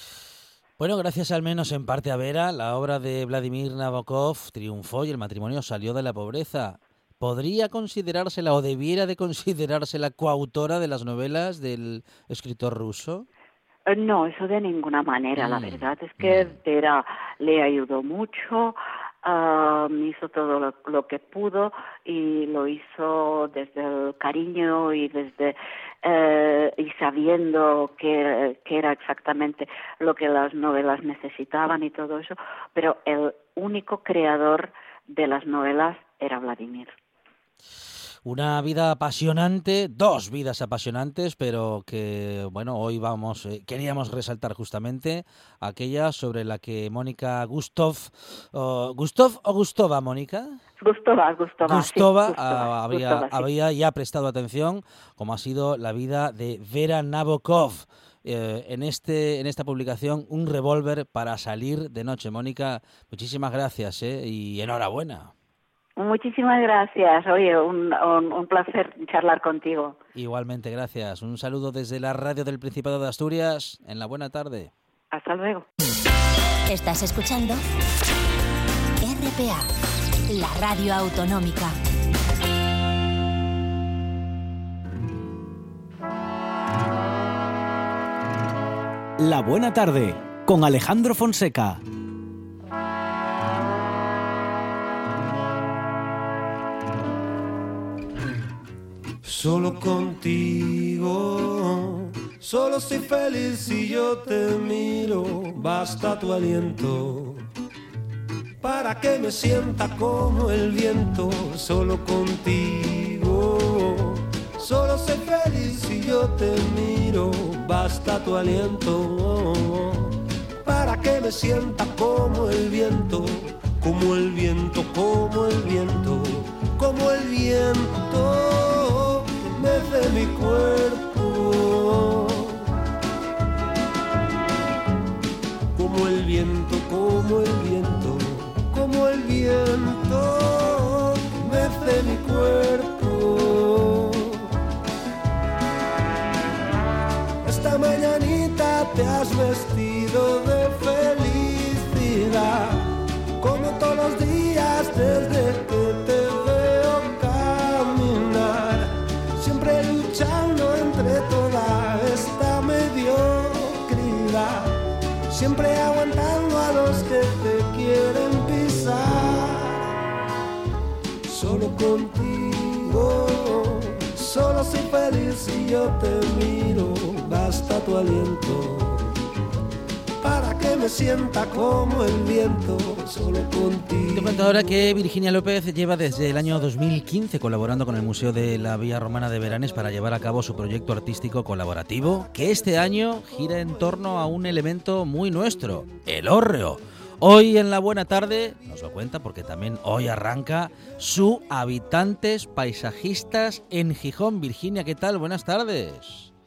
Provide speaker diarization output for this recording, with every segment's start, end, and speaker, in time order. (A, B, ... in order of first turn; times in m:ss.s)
0:00.8-0:13.3 A
0:13.9-0:36.9 B
0:15.4-0:16.5 A
0:38.2-0:50.6 A
0:50.8-0:53.5 B
0:51.6-1:05.3 A
1:06.0-1:10.0 B
1:10.2-1:14.7 A
1:15.1-1:15.7 B
1:16.7-1:17.6 C
1:19.0-1:19.7 C
1:20.3-1:21.8 C
1:29.2-1:31.8 D
1:39.2-1:47.5 E
1:48.6-2:12.7 E
2:15.8-2:24.6 E
2:27.4-2:49.9 E
2:51.3-2:59.1 E
3:00.2-3:04.7 E
3:04.1-3:26.3 A